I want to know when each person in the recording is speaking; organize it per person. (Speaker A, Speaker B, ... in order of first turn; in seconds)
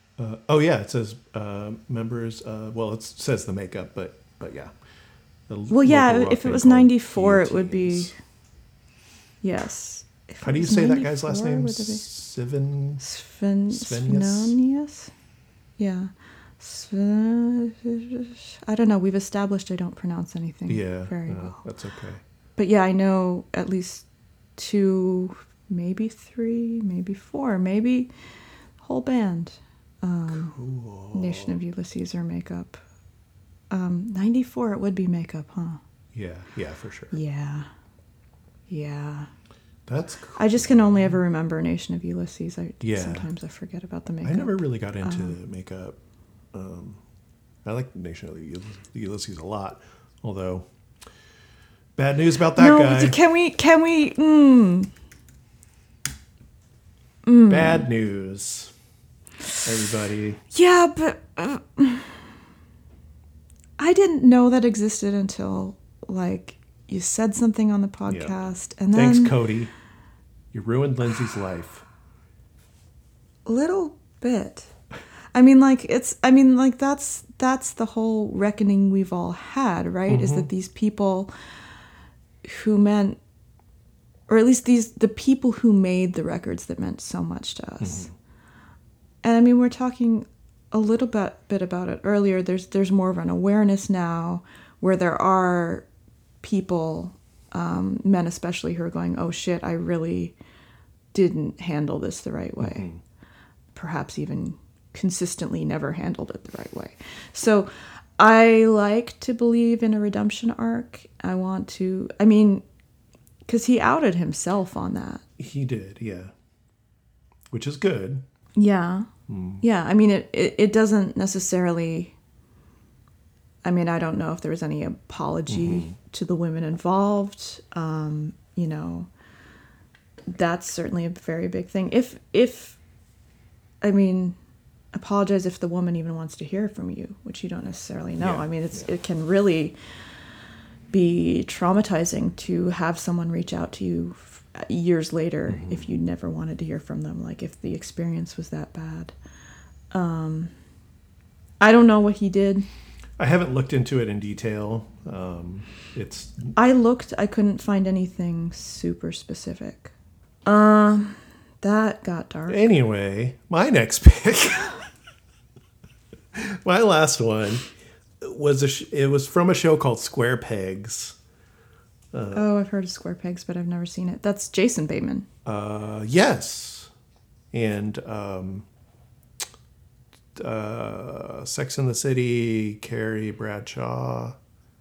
Speaker A: 0.2-4.7, 5.5-8.1, 10.4-13.0, 13.7-14.6, 20.7-22.2, 30.3-31.6, 36.1-37.1, 39.9-41.2, 42.8-43.3, 44.2-46.0, 46.5-47.0, 47.6-50.7, 52.0-53.2, 57.5-58.7, 59.6-60.4, 68.1-69.7, 70.5-71.9, 80.1-80.5, 87.8-88.1, 102.6-103.0, 115.4-116.3, 117.5-118.2, 119.3-119.6, 125.5-126.0, 138.2-138.5, 145.5-145.9, 153.2-156.6, 162.5-164.8, 166.3-167.7, 168.2-171.2, 172.1-172.5, 175.4-176.9, 177.5-178.7, 180.3-184.4
Speaker B: 5.7-8.1, 9.4-12.1, 13.0-15.1, 15.8-21.6, 22.6-24.1, 24.6-28.1, 28.8-30.6, 31.1-32.8, 33.7-35.8, 37.1-37.7, 38.7-39.3, 40.4-45.4, 52.6-54.9, 57.2-57.9, 60.5-62.3, 63.8-69.3, 73.5-74.7, 75.3-81.3, 82.4-83.2, 84.3-88.1, 89.2-95.9, 96.4-100.3, 101.1-102.9, 103.7-112.6, 113.5-115.2, 118.6-119.1, 119.6-122.1, 123.6-129.1, 130.3-132.8, 133.8-134.4, 134.9-139.8, 140.9-149.1, 149.9-150.5, 151.6-152.7, 156.6-159.9, 160.4-162.7, 172.3-175.3